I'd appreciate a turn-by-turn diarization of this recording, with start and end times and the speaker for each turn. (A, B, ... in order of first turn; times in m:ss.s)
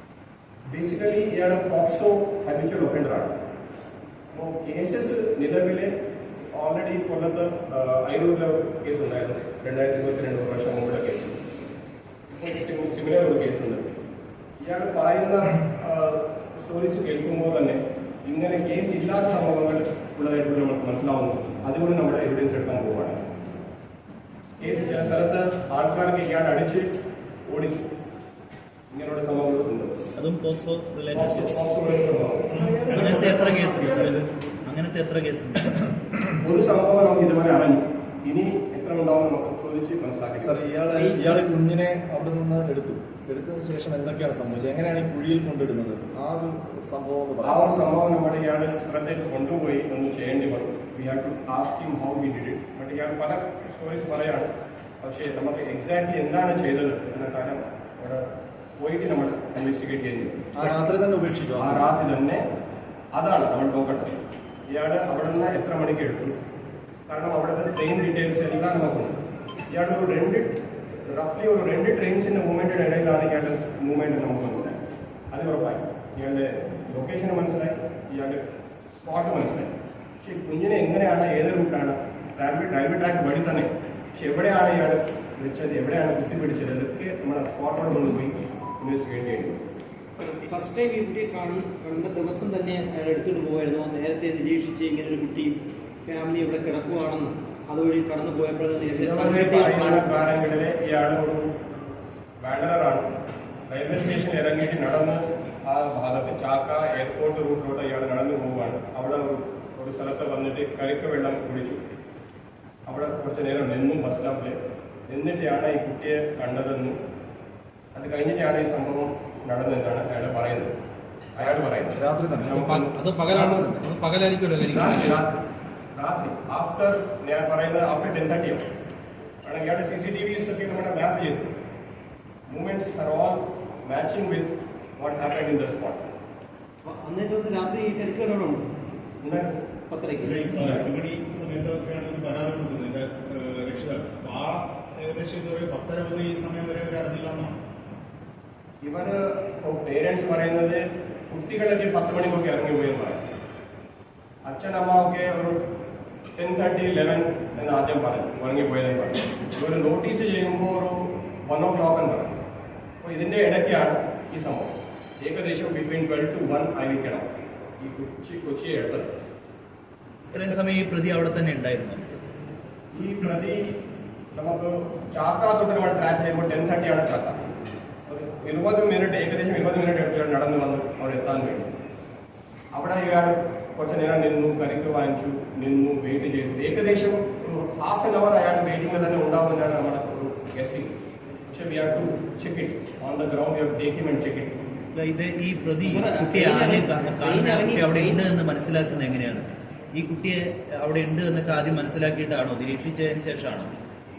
0:00.7-0:03.3 A
0:04.3-0:05.9 A
0:06.5-0:11.4 A
0:12.3-0:13.9 A
0:14.6-0:23.2 A
0:24.6-0:26.8 A
0:27.5-0:27.8 A
0:28.9-0:30.0 A
0:30.2-0:31.5 B
0:31.1-0:32.6 A
0:32.7-0:33.6 C
0:32.9-0:35.9 B
0:36.4-0:40.6 A
0:40.4-0:47.7 D
0:40.9-0:41.4 E
0:47.4-0:54.5 A
0:55.0-0:58.2 A
0:58.8-1:00.5 A
1:00.6-1:01.9 D
1:01.6-1:02.4 A
1:03.1-1:04.1 A
1:04.7-1:06.3 A
1:07.1-1:09.2 A
1:09.7-1:10.5 A
1:11.1-1:14.8 A
1:15.3-1:29.6 A
1:30.1-1:40.2 E
1:39.0-1:41.5 A
1:42.4-1:43.0 A
1:43.7-1:51.8 A
1:52.9-1:54.6 A
1:55.1-1:57.0 A
1:57.9-2:00.7 A
2:01.4-2:02.9 A
2:01.9-2:02.7 D
2:02.5-2:05.2 F
2:03.3-2:03.8 D
2:04.7-2:05.4 A
2:06.0-2:08.6 A
2:09.4-2:11.5 A
2:12.5-2:16.0 A
2:16.8-2:18.7 E
2:19.2-2:19.6 A
2:19.9-2:20.5 E
2:20.2-2:27.6 C
2:20.5-2:20.9 A
2:28.8-2:33.2 A
2:34.4-2:35.6 A
2:36.4-2:42.4 A
2:43.0-2:47.3 A
2:47.8-2:49.1 A
2:50.3-2:52.3 B
2:50.3-2:50.6 A
2:52.9-2:53.7 A
2:54.3-2:57.4 A
2:58.1-3:01.7 A
3:02.7-3:11.0 A
3:11.5-3:14.6 A
3:14.9-3:23.7 B
3:15.8-3:18.2 E